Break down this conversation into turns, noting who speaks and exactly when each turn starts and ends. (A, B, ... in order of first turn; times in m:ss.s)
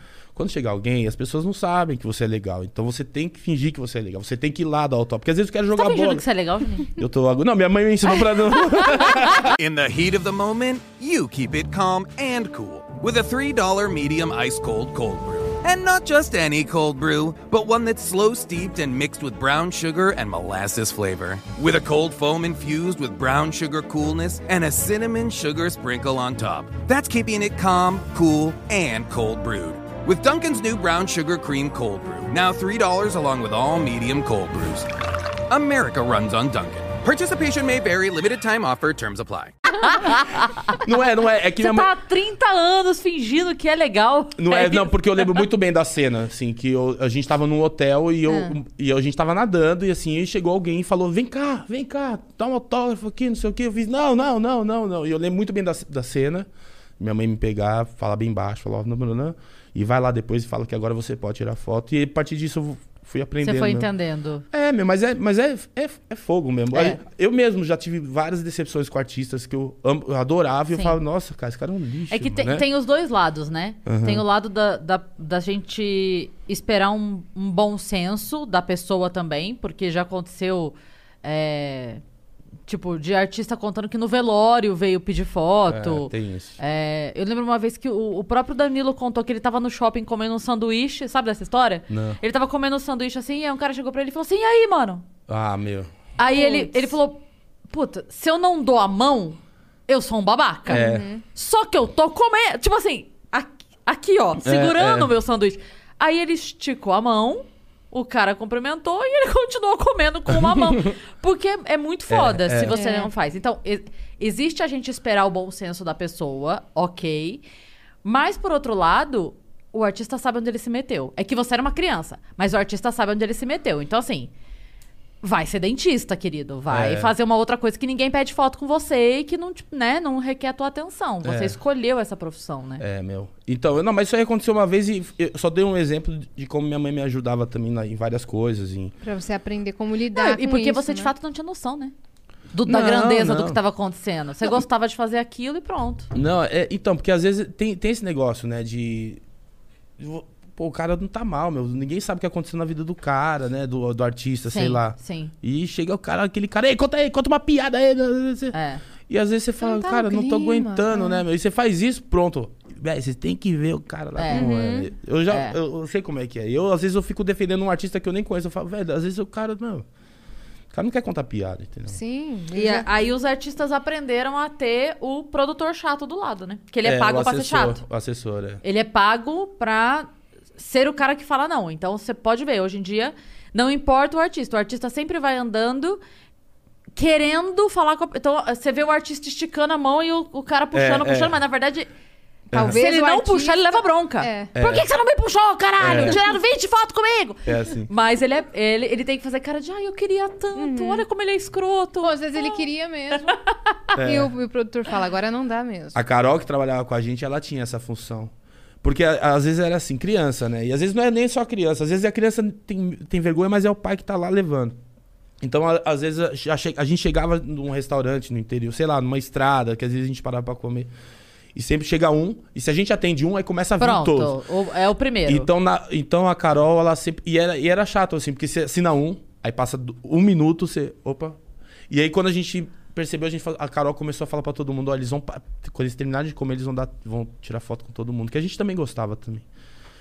0:00.4-0:06.2 A
0:05.7-0:06.9 B
0:06.9-0:09.6 A
0:09.5-0:34.9 C
0:35.5-0:39.6 C
0:39.8-0:40.8 B
0:40.8-0:41.9 A
0:41.6-0:45.4 B
0:44.4-0:56.5 A
0:48.3-0:48.5 D
0:57.0-1:03.9 A
1:03.4-1:04.4 B
1:04.5-1:12.7 A
1:06.7-1:07.0 B
1:10.7-1:11.0 B
1:12.1-1:22.0 B
1:13.9-1:14.2 A
1:22.7-1:35.0 B
1:25.7-1:26.6 A
1:31.9-1:32.2 A
1:35.3-1:35.9 A
1:36.2-1:57.4 B
1:36.4-1:36.9 D
1:40.7-1:41.1 A
1:40.7-1:41.2 D
1:44.4-1:45.1 A
1:50.5-1:50.9 A
1:52.1-1:52.8 A
1:52.7-1:53.1 D
1:58.0-2:04.3 B
2:05.2-2:12.8 B
2:06.7-2:07.1 A
2:11.2-2:11.6 A
2:12.8-2:19.0 A
2:19.0-2:21.1 D
2:20.1-2:21.9 B
2:22.5-2:26.1 B
2:22.7-2:23.6 A
2:26.1-2:29.2 A
2:30.0-2:38.6 A
2:34.5-2:35.3 B
2:38.5-2:38.8 B
2:39.1-2:49.9 A
2:39.6-2:41.2 D
2:44.2-2:44.5 B
2:44.3-2:44.9 D
2:45.3-2:45.6 B
2:50.7-2:52.0 A
2:51.9-2:52.9 D
2:52.5-2:57.8 B
2:56.8-2:58.6 A
2:58.6-3:06.0 B
3:07.0-3:11.9 B
3:10.7-3:11.4 A
3:12.5-3:14.5 D
3:12.5-3:12.8 A
3:12.6-3:22.6 B
3:14.6-3:14.9 A
3:15.8-3:16.2 A
3:17.5-3:17.9 A
3:20.6-3:21.0 D
3:22.0-3:23.4 D
3:24.0-3:24.3 A
3:24.0-3:26.0 D
3:26.0-3:28.3 A
3:28.8-3:34.8 A
3:35.4-3:40.9 A
3:41.6-3:44.4 A
3:43.8-3:45.5 B
3:45.3-3:51.4 A
3:51.9-3:59.4 A